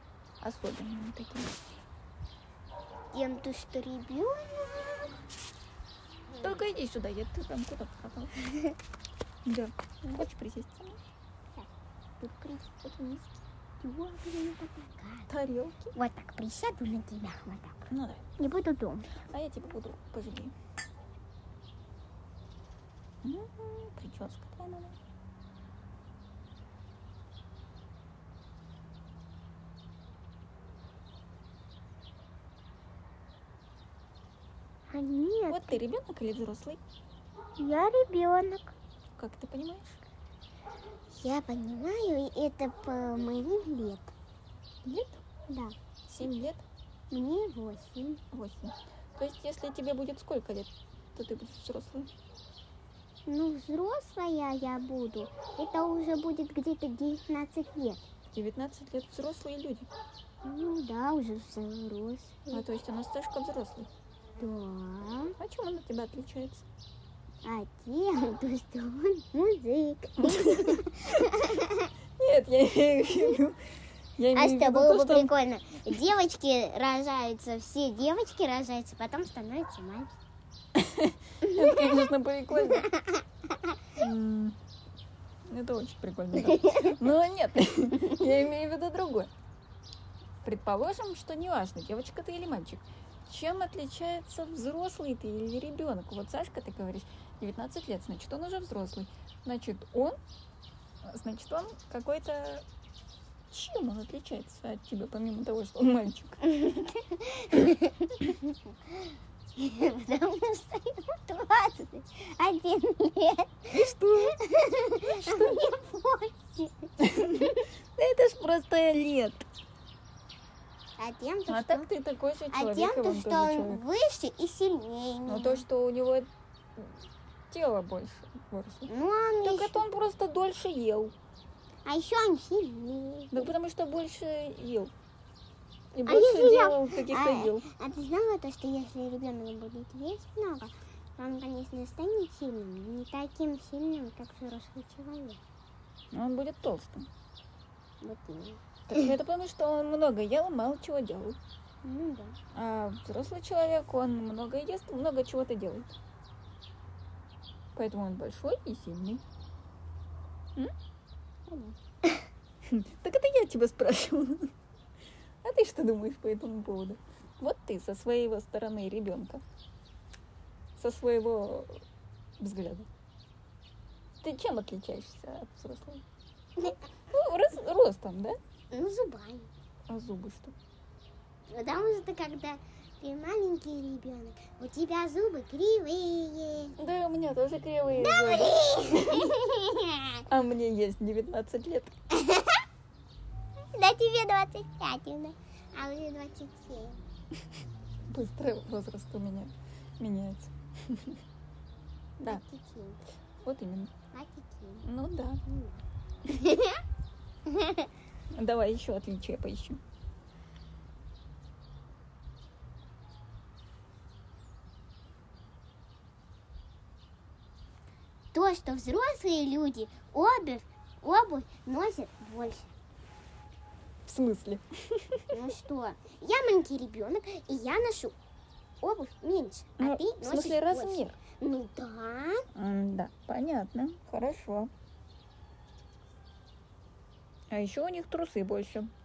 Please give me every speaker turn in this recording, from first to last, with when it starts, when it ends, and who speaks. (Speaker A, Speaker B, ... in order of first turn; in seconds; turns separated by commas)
Speaker A: 0.4-1.6, Speaker B: 3.1-5.2, Speaker B: 6.3-6.6, Speaker A: 6.4-8.5, Speaker B: 8.4-8.8, Speaker A: 9.4-11.0, Speaker B: 11.5-12.8, Speaker A: 12.8-13.4, Speaker B: 13.8-15.3, Speaker A: 15.3-15.9, Speaker B: 15.9-19.1, Speaker A: 17.9-18.2, Speaker A: 19.1-20.5, Speaker A: 23.2-25.0, Speaker B: 34.9-35.8, Speaker A: 35.5-36.8, Speaker B: 37.6-38.8, Speaker A: 39.2-40.0, Speaker B: 41.1-44.1, Speaker A: 44.8-45.2, Speaker B: 45.3-45.8, Speaker A: 46.1-46.6, Speaker B: 47.1-48.2, Speaker A: 48.3-52.1, Speaker B: 53.2-58.0, Speaker A: 58.3-59.9, Speaker B: 60.4-62.6, Speaker A: 62.5-63.9, Speaker B: 64.4-65.3, Speaker A: 65.4-66.6, Speaker B: 67.4-71.9, Speaker A: 70.2-71.0, Speaker A: 72.2-73.6, Speaker A: 74.2-75.3, Speaker B: 74.3-80.2, Speaker A: 80.7-82.9, Speaker B: 81.4-83.8, Speaker A: 84.0-84.6, Speaker A: 85.5-89.3, Speaker B: 86.4-87.0, Speaker A: 90.4-100.2, Speaker A: 101.0-102.6, Speaker A: 103.5-106.6, Speaker B: 106.4-117.7, Speaker A: 113.7-114.4, Speaker A: 115.0-115.6, Speaker A: 117.0-119.4, Speaker B: 121.0-121.9, Speaker A: 121.5-123.8, Speaker B: 122.5-125.6, Speaker A: 125.3-128.9, Speaker B: 128.9-129.8, Speaker A: 129.4-131.1, Speaker B: 131.8-133.5, Speaker A: 133.3-134.9, Speaker A: 135.9-137.7, Speaker B: 136.1-145.4, Speaker A: 146.1-147.1, Speaker B: 148.0-148.6, Speaker A: 148.9-151.4, Speaker B: 151.8-152.4, Speaker A: 152.5-155.9, Speaker A: 157.7-159.2, Speaker B: 161.5-162.3, Speaker A: 162.7-164.5, Speaker A: 165.4-169.4, Speaker A: 170.8-171.8, Speaker A: 172.4-172.9, Speaker A: 174.2-176.0, Speaker A: 177.1-178.4, Speaker B: 178.7-179.5, Speaker A: 179.9-180.5, Speaker B: 181.5-186.8, Speaker A: 186.8-189.3, Speaker B: 187.9-190.2, Speaker A: 190.3-191.9, Speaker B: 192.1-192.6, Speaker B: 193.7-197.1, Speaker A: 198.1-201.2, Speaker B: 202.2-203.0, Speaker A: 203.4-203.9, Speaker B: 204.1-204.9, Speaker A: 204.8-205.4, Speaker B: 205.4-206.8, Speaker B: 207.4-207.9, Speaker A: 208.3-209.8, Speaker B: 218.3-222.7, Speaker A: 224.1-225.3, Speaker B: 225.3-228.2, Speaker B: 228.8-232.5, Speaker A: 229.8-231.2, Speaker A: 232.5-234.7, Speaker A: 237.5-238.9